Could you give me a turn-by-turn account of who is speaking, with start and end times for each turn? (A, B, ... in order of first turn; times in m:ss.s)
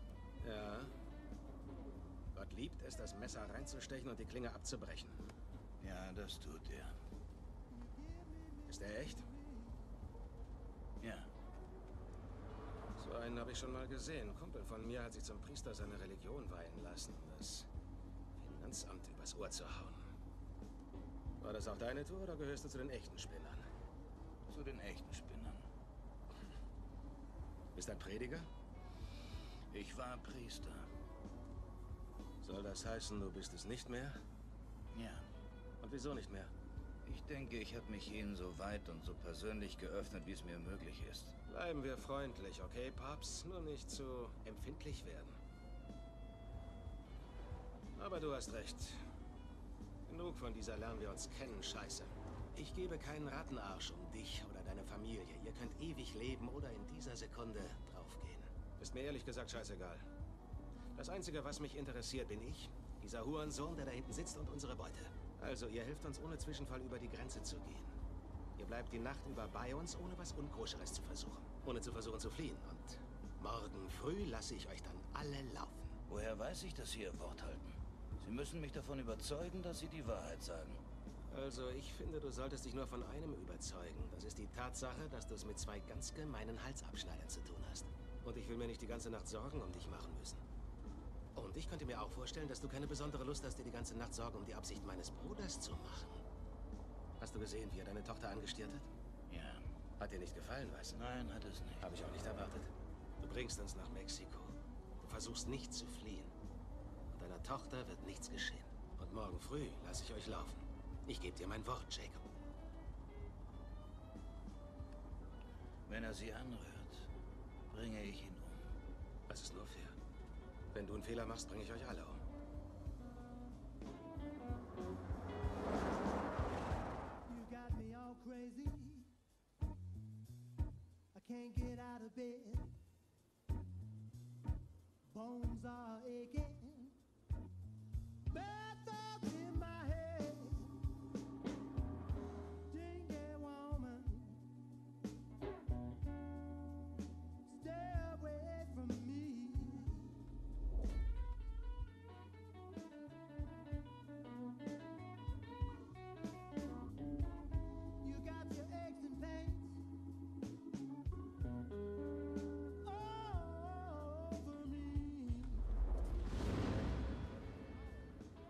0:00.4-0:00.9 A
0:02.3-0:05.2 A
0:05.8-0:07.0 B
0:08.7-0:09.3 A
0:11.0-0:11.3 B
0:13.0-0:17.7 A
0:18.4-0:20.1 A
0:21.4-0:23.7 A
0:24.5-0:25.7 B
0:27.8-0:28.5 A
0:29.7-0:30.9 B
0:32.4-0:34.2 A
0:34.9-0:35.3 B
0:35.8-0:36.5 A
0:37.0-0:41.4 B
0:41.5-0:45.4 A
0:48.0-0:49.0 A
0:50.1-1:00.1 A
1:01.0-1:08.0 A
1:08.6-1:16.0 A
1:16.1-1:20.8 B
1:21.3-1:30.4 A
1:31.4-1:36.2 A
1:37.2-1:38.9 A
1:39.3-1:39.7 B
1:40.0-1:41.0 A
1:40.9-1:41.9 B
1:41.8-1:46.3 A
1:47.1-1:52.2 A
1:55.9-1:57.1 B
1:57.7-1:58.8 B
1:59.3-2:00.0 A
2:00.7-2:02.2 A
2:07.4-2:08.8 C
2:11.3-2:12.6 C
2:15.2-2:16.7 C
2:18.9-2:20.0 C
2:22.8-2:24.0 C
2:38.2-2:39.4 C
2:43.4-2:43.8 C